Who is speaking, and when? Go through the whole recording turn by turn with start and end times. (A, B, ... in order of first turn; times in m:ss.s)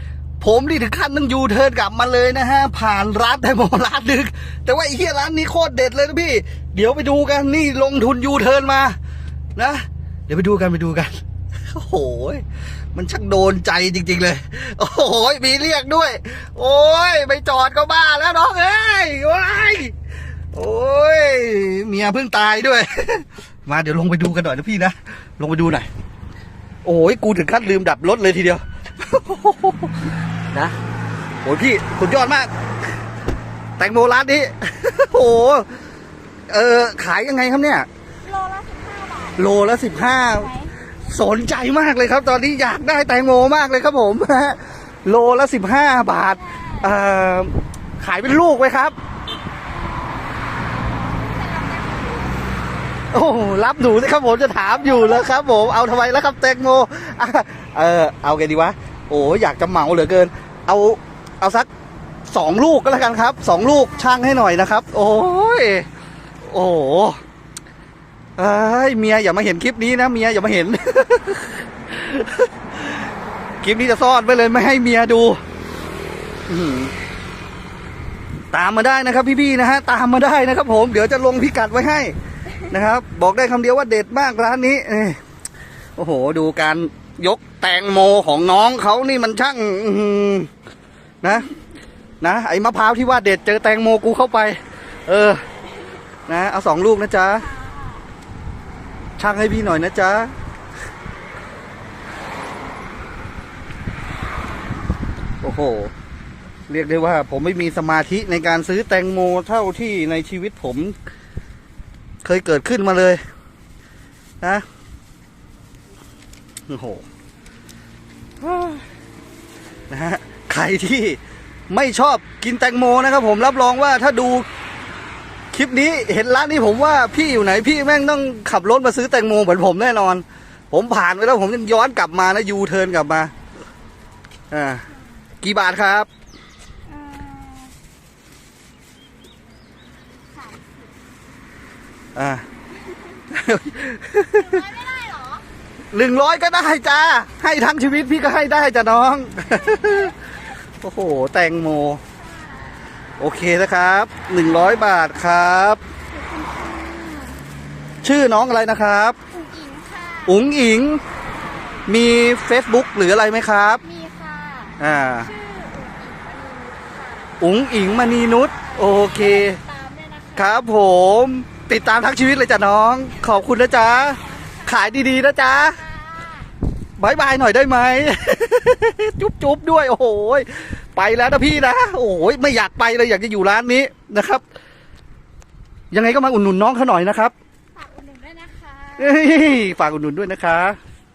0:00.4-0:09.0 A
0:09.6-0:19.9 A
0:20.5-0:25.9 A
0:26.8-0:30.8 A
0:31.4-0:32.5 A
0:33.8-0:35.7 A
0:36.5-0:37.9 A
0:38.2-0:40.7 B
0:39.4-0:40.5 A
0:41.1-0:49.0 A
0:46.2-0:46.9 B
0:49.7-0:52.6 B
0:53.1-1:01.7 A
1:02.3-1:05.9 A
1:06.4-1:07.2 A
1:08.4-1:12.9 A
1:13.6-1:15.4 A
1:16.5-1:16.9 A
1:18.5-1:22.2 A
1:22.7-1:25.2 A
1:26.0-1:30.5 A
1:31.2-1:31.5 A
1:32.2-1:35.4 A
1:36.3-1:37.5 A
1:37.4-1:38.1 B
1:39.2-1:40.3 A
1:45.4-1:45.9 A
1:46.7-1:51.0 A
1:52.2-1:53.2 A
1:56.7-1:57.0 A
1:58.4-1:58.8 A
1:59.9-2:04.5 A
2:05.5-2:13.3 A
2:14.5-2:14.8 A
2:15.4-2:16.1 A
2:16.9-2:17.7 B
2:20.3-2:20.9 B
2:22.2-2:22.4 A
2:23.3-2:24.6 A
2:24.3-2:25.5 B
2:25.9-2:30.1 A
2:29.6-2:30.0 B
2:30.8-2:32.0 A
2:32.2-2:32.8 B
2:33.2-2:35.8 A
2:36.1-2:37.4 B
2:38.0-2:39.2 A
2:39.3-2:40.4 B
2:40.3-2:41.0 A
2:41.3-2:41.8 B
2:41.9-2:43.8 A
2:43.8-2:47.4 B
2:44.8-2:45.3 A
2:47.4-2:49.6 A
2:48.5-2:50.6 B
2:50.4-2:55.8 A
2:54.2-2:55.0 B
2:55.6-2:56.5 B
2:57.0-3:04.4 A
3:05.9-3:07.3 A
3:07.8-3:09.6 B
3:09.0-3:10.8 A